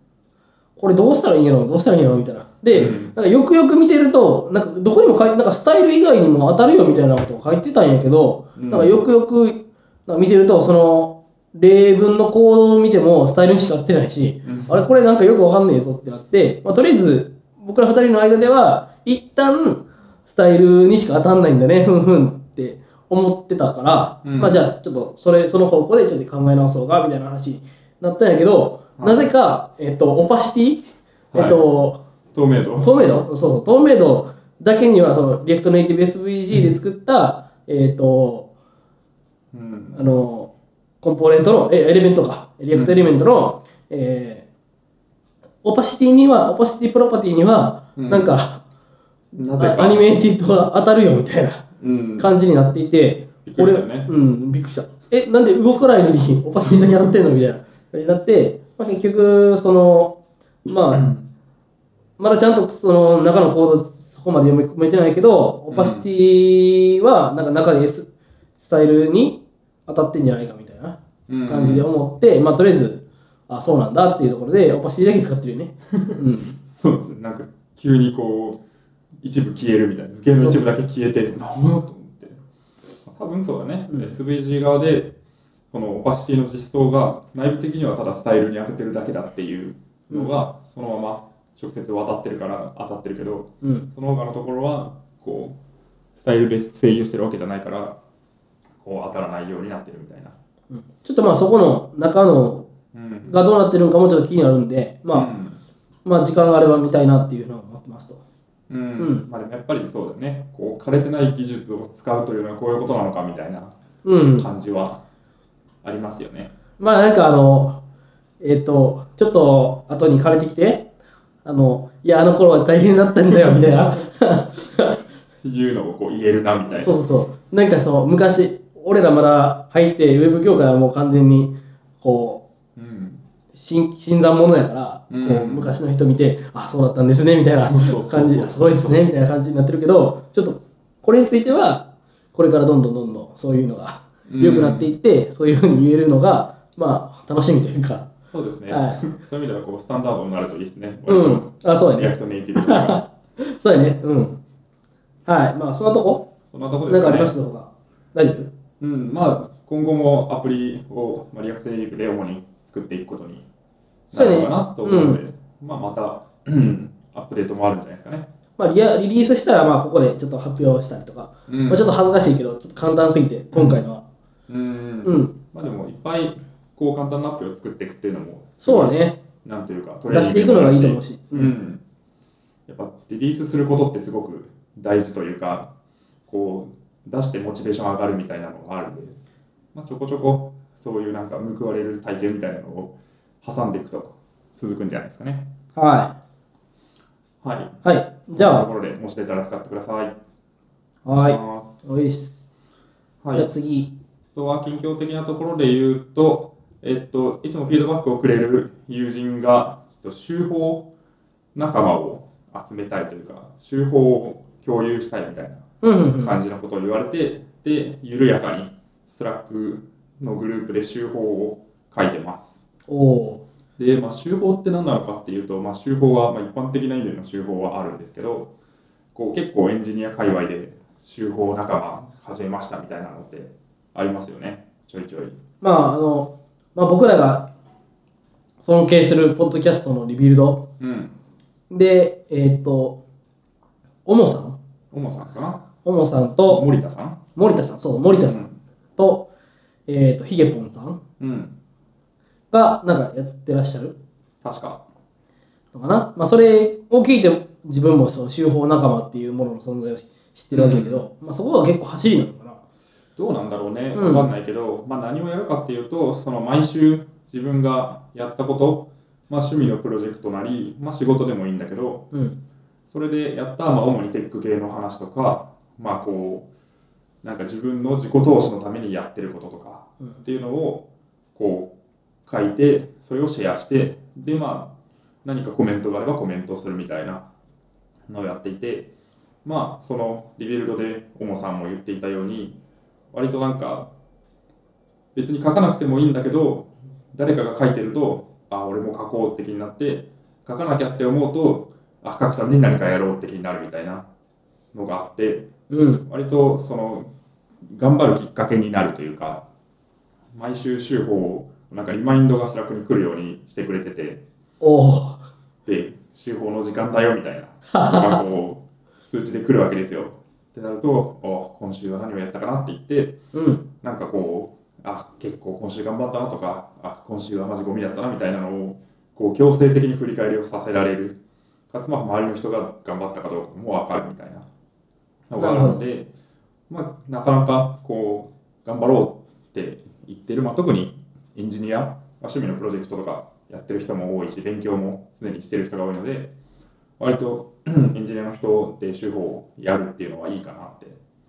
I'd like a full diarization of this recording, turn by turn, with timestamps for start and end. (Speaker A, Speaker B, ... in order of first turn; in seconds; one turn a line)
Speaker A: 0.8-32.0
Speaker B: 2.7-3.1
Speaker B: 8.6-9.0
Speaker B: 14.4-14.8
Speaker B: 24.2-24.6
Speaker B: 29.0-29.3
Speaker B: 31.3-31.7
Speaker B: 32.3-33.1
Speaker A: 32.8-38.5
Speaker B: 39.5-40.0
Speaker A: 40.0-40.5
Speaker A: 41.0-44.5
Speaker B: 42.7-43.1
Speaker A: 45.6-48.6
Speaker B: 48.0-48.4
Speaker B: 49.4-50.0
Speaker A: 49.5-61.1
Speaker B: 51.8-52.3
Speaker B: 53.5-54.1
Speaker B: 60.9-61.3
Speaker A: 62.2-76.6
Speaker B: 65.7-66.1
Speaker B: 71.3-71.9
Speaker B: 75.9-78.6
Speaker B: 79.2-82.4
Speaker B: 83.0-85.2
Speaker A: 83.9-84.2
Speaker B: 85.7-95.6
Speaker A: 90.1-90.4
Speaker A: 93.6-93.9
Speaker B: 96.2-98.0
Speaker B: 98.8-100.3
Speaker A: 100.7-102.7
Speaker B: 102.9-103.4
Speaker A: 103.3-105.3
Speaker B: 105.1-105.6
Speaker A: 106.0-108.2
Speaker B: 108.7-113.7
Speaker A: 109.0-109.2
Speaker A: 114.0-114.5
Speaker B: 114.4-115.0
Speaker B: 115.8-116.5
Speaker A: 116.8-117.8
Speaker A: 118.4-120.9
Speaker A: 121.5-125.0
Speaker B: 123.5-123.8
Speaker B: 125.4-127.0
Speaker A: 126.8-132.4
Speaker B: 132.8-133.2
Speaker A: 133.5-148.1
Speaker B: 135.1-135.8
Speaker B: 137.6-139.1
Speaker B: 144.3-144.9
Speaker B: 148.3-153.1
Speaker A: 148.7-149.0
Speaker A: 151.1-154.4
Speaker A: 155.3-156.3
Speaker B: 156.5-157.3
Speaker A: 156.9-158.5
Speaker B: 158.8-163.5
Speaker B: 164.1-168.3
Speaker A: 164.1-165.2
Speaker A: 168.6-174.0
Speaker B: 171.5-171.9
Speaker B: 173.5-173.8
Speaker B: 174.5-181.8
Speaker A: 175.0-175.4
Speaker A: 178.6-179.2
Speaker A: 180.1-181.5
Speaker B: 182.7-185.7
Speaker B: 186.3-189.2
Speaker B: 189.7-195.5
Speaker A: 195.8-196.2
Speaker B: 197.4-197.8
Speaker A: 197.8-198.7
Speaker B: 198.3-200.2
Speaker A: 201.1-202.5
Speaker B: 201.1-202.0
Speaker B: 203.2-203.5
Speaker A: 203.3-203.9
Speaker B: 204.3-210.9
Speaker B: 211.6-215.7
Speaker A: 215.8-216.4
Speaker B: 216.2-222.7
Speaker A: 222.9-223.4
Speaker B: 223.8-228.5
Speaker B: 229.2-235.4
Speaker A: 235.6-237.5
Speaker A: 238.6-240.7
Speaker B: 240.8-241.2
Speaker A: 241.7-243.0
Speaker A: 244.1-244.6
Speaker B: 244.9-245.7
Speaker A: 245.8-246.7
Speaker B: 246.5-247.2
Speaker A: 247.3-248.4
Speaker B: 248.2-248.6
Speaker A: 249.0-249.3
Speaker A: 249.9-251.0
Speaker B: 251.2-251.6
Speaker A: 252.5-254.0
Speaker B: 254.4-254.8
Speaker A: 255.7-262.6
Speaker B: 260.5-261.0
Speaker B: 263.2-272.1
Speaker A: 263.9-264.3
Speaker A: 272.1-272.4
Speaker B: 272.9-276.5
Speaker B: 277.2-281.7
Speaker B: 282.3-284.7
Speaker B: 285.2-287.3
Speaker B: 288.1-288.9
Speaker B: 289.4-292.6
Speaker B: 293.1-293.9
Speaker B: 295.1-304.1
Speaker B: 304.7-305.5
Speaker A: 305.7-306.1
Speaker B: 306.1-307.1
Speaker B: 307.7-309.4
Speaker B: 310.3-314.2
Speaker A: 314.6-315.2
Speaker B: 315.7-323.2
Speaker A: 317.7-318.2
Speaker A: 323.3-323.6
Speaker B: 323.8-331.2
Speaker B: 331.7-334.5
Speaker B: 335.3-336.1
Speaker A: 335.4-335.8
Speaker B: 336.7-346.3
Speaker B: 347.0-351.0